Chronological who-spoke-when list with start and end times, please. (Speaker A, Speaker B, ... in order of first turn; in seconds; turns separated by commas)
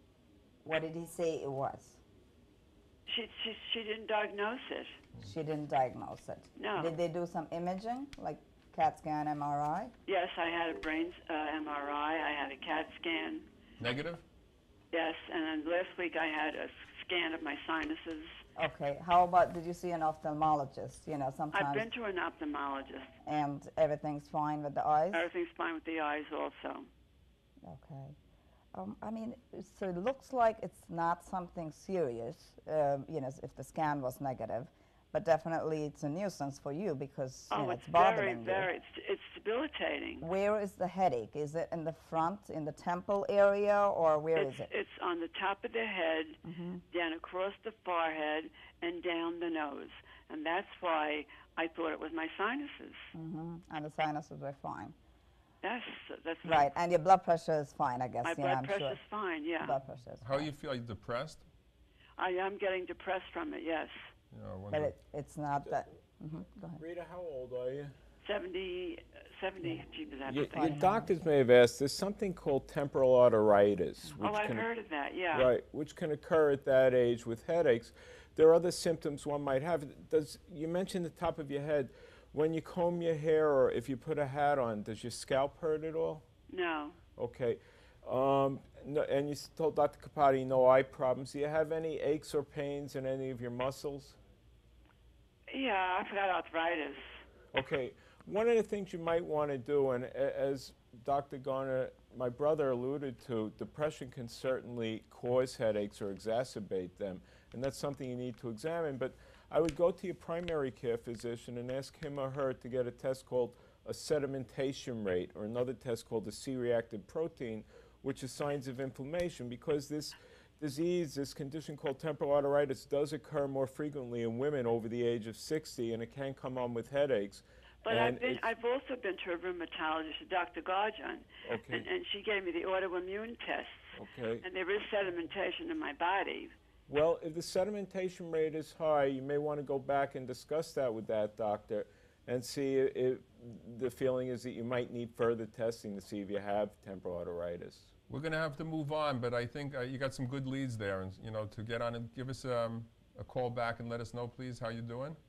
Speaker A: 0.6-2.0, Speaker B: 3.1-5.0, Speaker A: 5.2-9.9, Speaker B: 6.6-7.0, Speaker B: 10.1-13.5, Speaker C: 13.8-14.2, Speaker B: 14.9-18.4, Speaker A: 18.6-21.9, Speaker B: 21.5-23.1, Speaker A: 23.2-25.3, Speaker B: 25.1-26.9, Speaker A: 27.6-28.1, Speaker A: 28.7-38.7, Speaker B: 37.5-40.3, Speaker A: 40.2-44.7, Speaker B: 44.3-46.4, Speaker A: 46.4-46.8, Speaker B: 46.9-53.1, Speaker A: 53.1-54.9, Speaker B: 55.6-56.7, Speaker A: 56.4-59.0, Speaker B: 58.2-59.8, Speaker A: 59.6-60.5, Speaker C: 60.2-61.5, Speaker B: 62.2-64.1, Speaker C: 64.3-64.9, Speaker A: 64.7-66.8, Speaker D: 66.8-67.9, Speaker B: 68.2-70.8, Speaker D: 70.3-74.7, Speaker A: 70.5-71.1, Speaker B: 74.2-75.5, Speaker D: 75.3-86.2, Speaker B: 86.5-87.0, Speaker D: 87.2-94.2, Speaker B: 95.5-97.2, Speaker D: 97.5-128.5, Speaker B: 127.8-136.5, Speaker D: 131.4-131.8, Speaker D: 133.9-134.4, Speaker D: 136.9-147.9, Speaker C: 148.1-155.2